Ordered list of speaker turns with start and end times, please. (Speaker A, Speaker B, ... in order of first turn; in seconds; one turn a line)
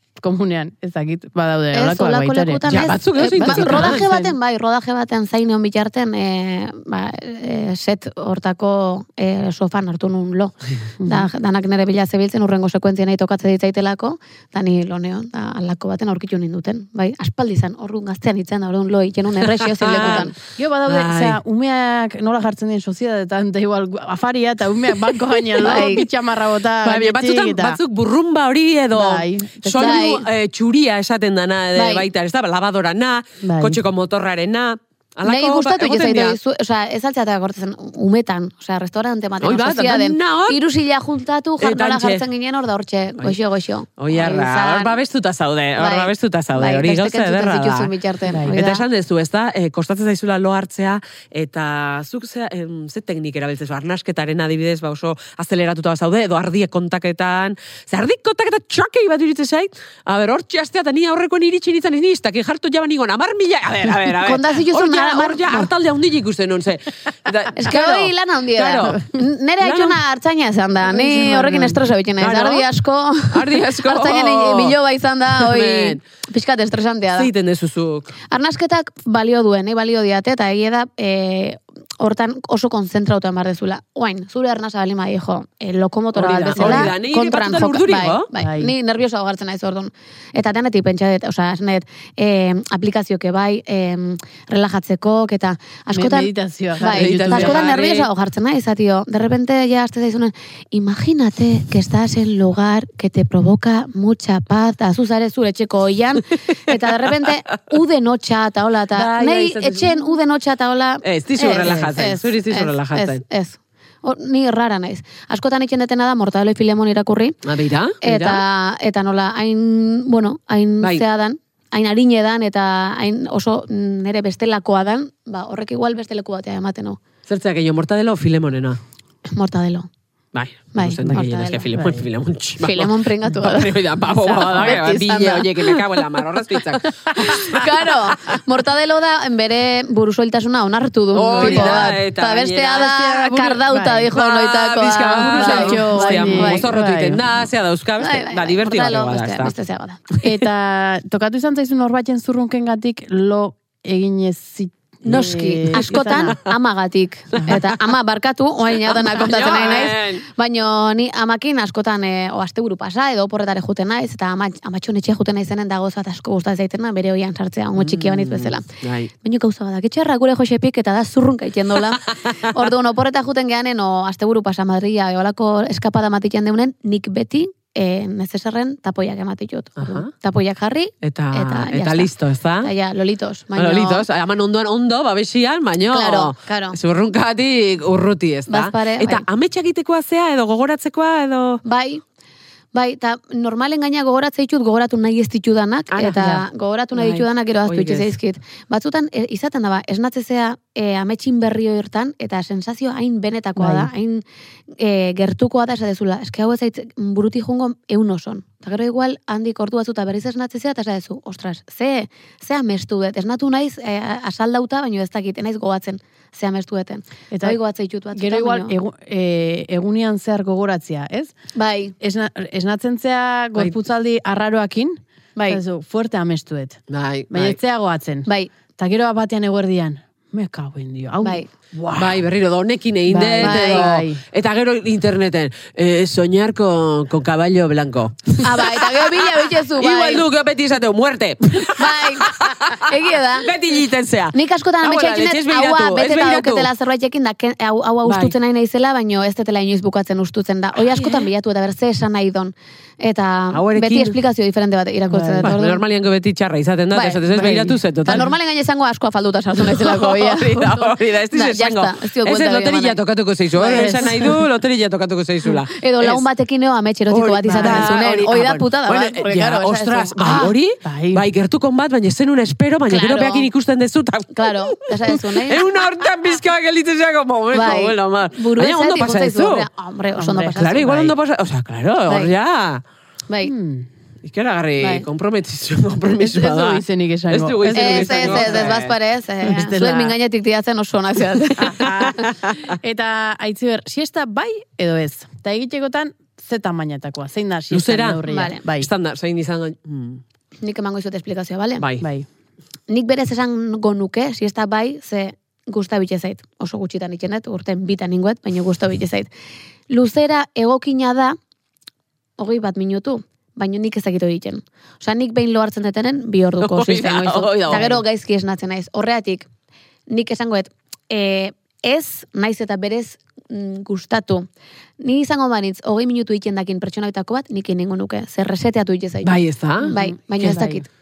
Speaker A: 0.2-2.7
Speaker B: 1.7-20.3
Speaker C: 2.7-4.0
Speaker A: 3.2-4.3
Speaker A: 11.0-11.3
Speaker C: 19.6-20.3
Speaker A: 20.0-27.8
Speaker C: 20.9-21.4
Speaker B: 25.6-26.1
Speaker C: 26.8-36.4
Speaker A: 28.9-30.1
Speaker B: 29.8-30.2
Speaker B: 31.7-32.1
Speaker A: 33.4-33.8
Speaker B: 35.2-45.0
Speaker C: 39.4-40.6
Speaker C: 41.6-42.2
Speaker C: 44.0-47.9
Speaker B: 45.8-48.8
Speaker A: 48.3-48.6
Speaker C: 48.4-70.0
Speaker B: 64.1-65.7
Speaker B: 67.5-77.3
Speaker A: 70.8-71.8
Speaker C: 72.2-72.7
Speaker C: 73.3-74.8
Speaker C: 75.3-76.0
Speaker C: 77.1-78.1
Speaker B: 78.3-117.4
Speaker C: 86.1-88.3
Speaker A: 86.5-86.9
Speaker A: 88.4-88.7
Speaker A: 95.9-97.7
Speaker C: 96.8-98.1
Speaker C: 106.5-107.6
Speaker C: 108.9-110.2
Speaker C: 111.0-113.2
Speaker C: 117.4-118.4
Speaker B: 118.0-127.0
Speaker C: 127.3-128.8
Speaker B: 129.3-129.9
Speaker C: 130.3-138.4
Speaker B: 130.7-131.9
Speaker A: 131.8-132.0
Speaker B: 132.6-135.8
Speaker A: 134.3-134.8
Speaker B: 137.1-146.7
Speaker C: 141.1-142.9
Speaker A: 141.3-142.0
Speaker A: 142.7-144.1
Speaker C: 144.1-149.5
Speaker A: 145.2-147.2
Speaker B: 148.0-150.1
Speaker A: 150.2-156.4
Speaker B: 155.1-168.7
Speaker C: 155.7-156.4
Speaker C: 157.3-157.7
Speaker C: 158.8-160.2
Speaker C: 167.7-169.1
Speaker B: 169.2-182.1
Speaker C: 179.8-180.1
Speaker C: 181.0-182.7
Speaker B: 182.6-184.0
Speaker C: 183.6-191.6
Speaker B: 185.9-186.8
Speaker B: 188.5-189.2
Speaker B: 191.6-192.0
Speaker B: 192.7-204.2
Speaker C: 195.9-196.4
Speaker C: 196.9-198.1
Speaker A: 203.6-203.9
Speaker B: 204.8-218.7
Speaker A: 217.3-217.6
Speaker A: 218.1-221.3
Speaker B: 221.5-221.9
Speaker A: 222.0-226.8
Speaker C: 226.9-227.6
Speaker A: 227.3-232.2
Speaker B: 228.3-228.5
Speaker B: 231.2-231.5
Speaker C: 231.9-246.7
Speaker A: 233.1-234.2
Speaker B: 233.4-233.9
Speaker B: 238.4-240.2
Speaker B: 241.7-243.5
Speaker B: 244.3-255.8
Speaker C: 248.0-248.3
Speaker C: 250.8-251.3
Speaker C: 253.5-254.2
Speaker A: 255.1-255.5
Speaker C: 255.4-258.3
Speaker B: 256.9-257.5
Speaker A: 257.3-258.3
Speaker B: 258.1-263.0
Speaker C: 259.6-266.2
Speaker B: 263.6-264.3
Speaker A: 263.6-264.3
Speaker B: 265.7-270.5
Speaker C: 267.1-279.7
Speaker A: 267.5-268.0
Speaker A: 270.2-271.2
Speaker B: 272.9-273.5
Speaker B: 274.3-275.8
Speaker B: 277.5-281.1
Speaker A: 280.2-280.6
Speaker C: 280.5-282.8
Speaker B: 283.3-283.5
Speaker A: 283.4-283.9
Speaker C: 284.2-288.9
Speaker A: 286.2-288.8
Speaker B: 287.7-292.3
Speaker A: 289.4-290.1
Speaker A: 291.6-292.1
Speaker C: 291.7-292.7
Speaker A: 292.7-298.9
Speaker C: 297.7-300.2
Speaker B: 298.2-298.6
Speaker B: 300.6-301.9
Speaker C: 301.8-302.1
Speaker A: 302.0-302.3
Speaker B: 302.9-309.3
Speaker B: 309.9-311.4
Speaker B: 312.4-319.5
Speaker C: 316.6-318.0
Speaker B: 320.1-324.5
Speaker B: 325.0-330.9
Speaker C: 329.2-329.9
Speaker A: 329.9-330.8